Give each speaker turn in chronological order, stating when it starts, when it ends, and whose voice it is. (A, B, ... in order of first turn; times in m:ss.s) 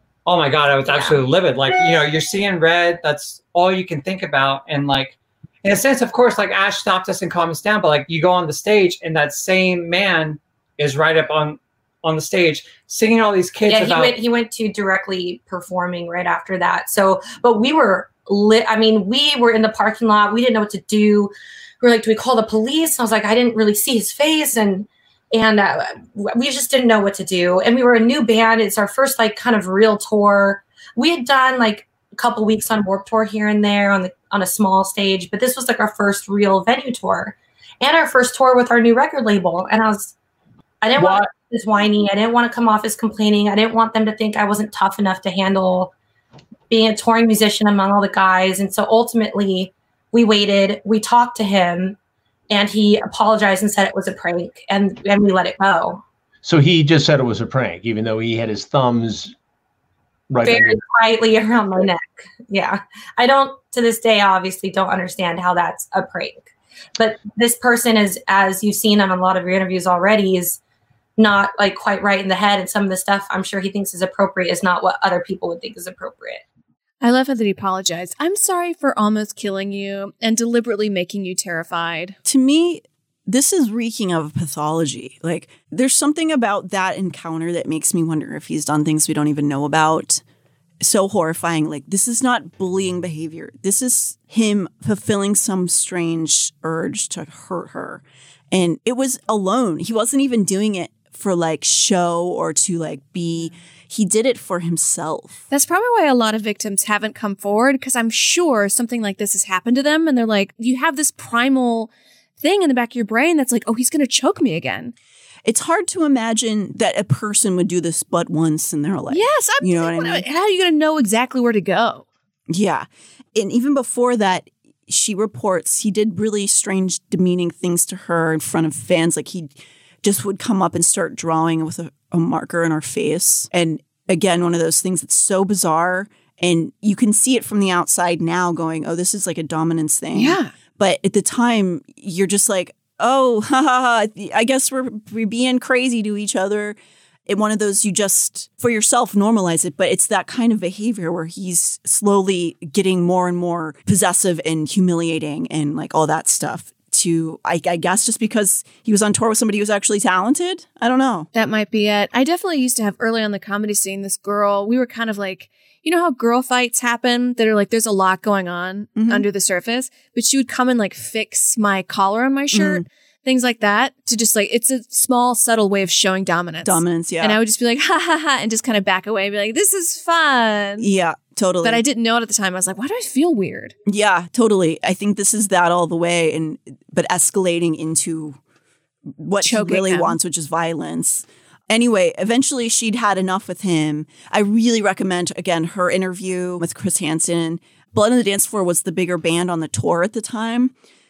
0:00.2-0:14.2 A
0:00.9-0:01.2 B
0:13.7-0:40.1 B
0:40.8-0:45.9 B
0:46.7-0:52.0 B
0:52.5-0:56.0 B
0:56.4-0:59.3 C
1:00.3-1:00.8 C
1:00.4-1:10.6 B
1:11.2-1:16.4 B
1:17.0-1:22.2 D
1:22.2-1:30.2 E
1:30.8-1:45.4 E
1:45.5-1:51.9 D
1:52.4-1:54.9 D
1:55.4-2:00.2 E
1:59.1-2:02.0 D
2:02.5-2:41.3 E
2:20.1-2:20.5 D
2:41.3-3:00.9 D
2:49.0-2:49.2 E
2:52.5-2:52.8 E
2:56.6-2:57.4 E
3:00.8-3:01.8 E
3:01.6-3:03.7 D
3:03.8-3:08.4 E
3:09.2-3:20.7 E
3:09.4-3:10.1 D